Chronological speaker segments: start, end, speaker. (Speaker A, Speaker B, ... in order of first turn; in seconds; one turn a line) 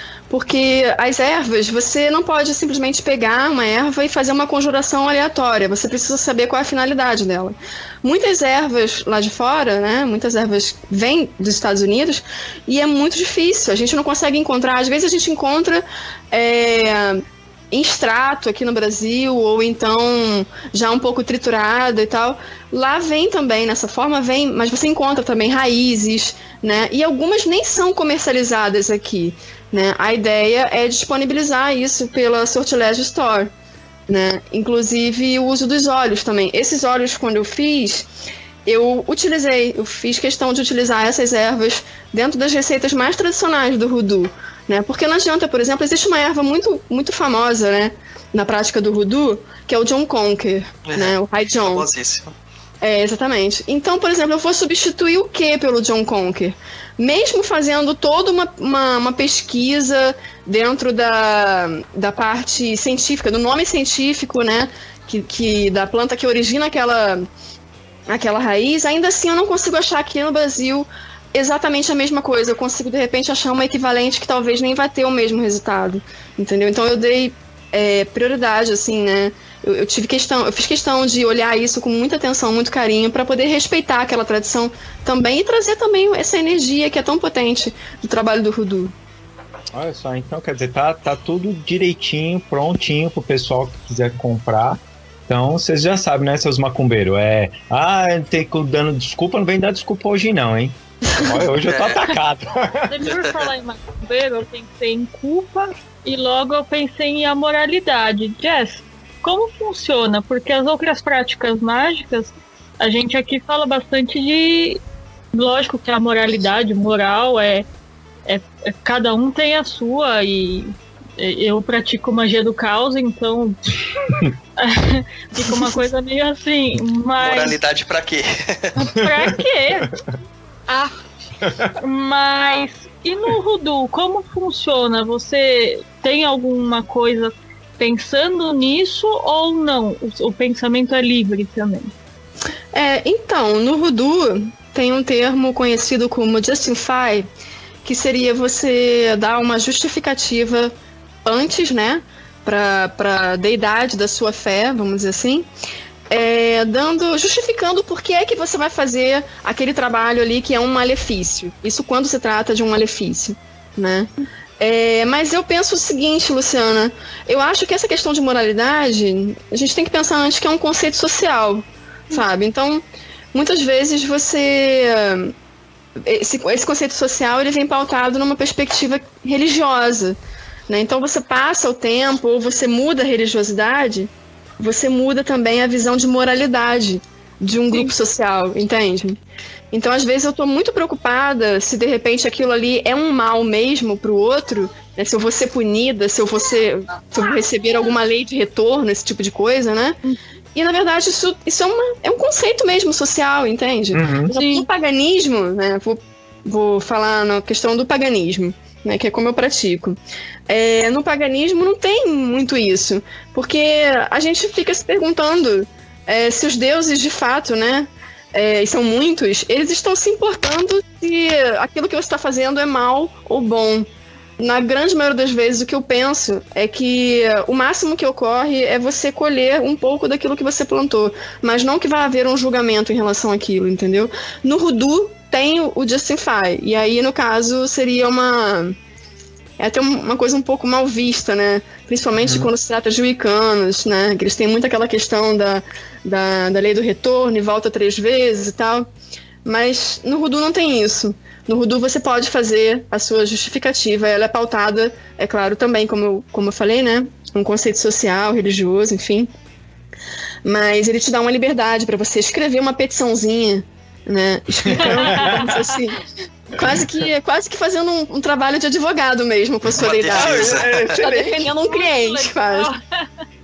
Speaker A: 0.3-33.5
Speaker A: 34.1-38.1
Speaker A: 38.6-51.9
Speaker B: 50.9-52.4
Speaker A: 52.8-67.3
Speaker A: 68.1-88.9
Speaker C: 89.7-103.0
Speaker B: 101.5-102.1
Speaker D: 102.9-114.8
Speaker B: 103.1-103.4
Speaker D: 115.3-117.7
Speaker D: 118.3-127.6
Speaker B: 127.2-128.9
Speaker D: 128.8-129.9
Speaker C: 129.0-129.3
Speaker D: 130.7-131.0
Speaker C: 131.4-131.7
Speaker D: 131.8-141.9
Speaker A: 142.7-147.3
Speaker A: 147.8-150.7
Speaker A: 151.2-155.5
Speaker A: 156.1-175.3
Speaker A: 176.0-180.2
Speaker A: 180.7-189.2
Speaker A: 189.7-200.0
Speaker A: 200.5-210.0
Speaker C: 203.9-204.3
Speaker D: 204.3-204.7
Speaker A: 210.5-223.9
Speaker A: 224.4-238.8
Speaker A: 239.6-248.9
Speaker C: 242.2-242.5
Speaker A: 249.4-259.3
Speaker A: 260.4-272.7
Speaker C: 264.7-265.4
Speaker D: 264.8-265.8
Speaker B: 269.7-270.9
Speaker C: 270.1-271.5
Speaker D: 271.6-273.1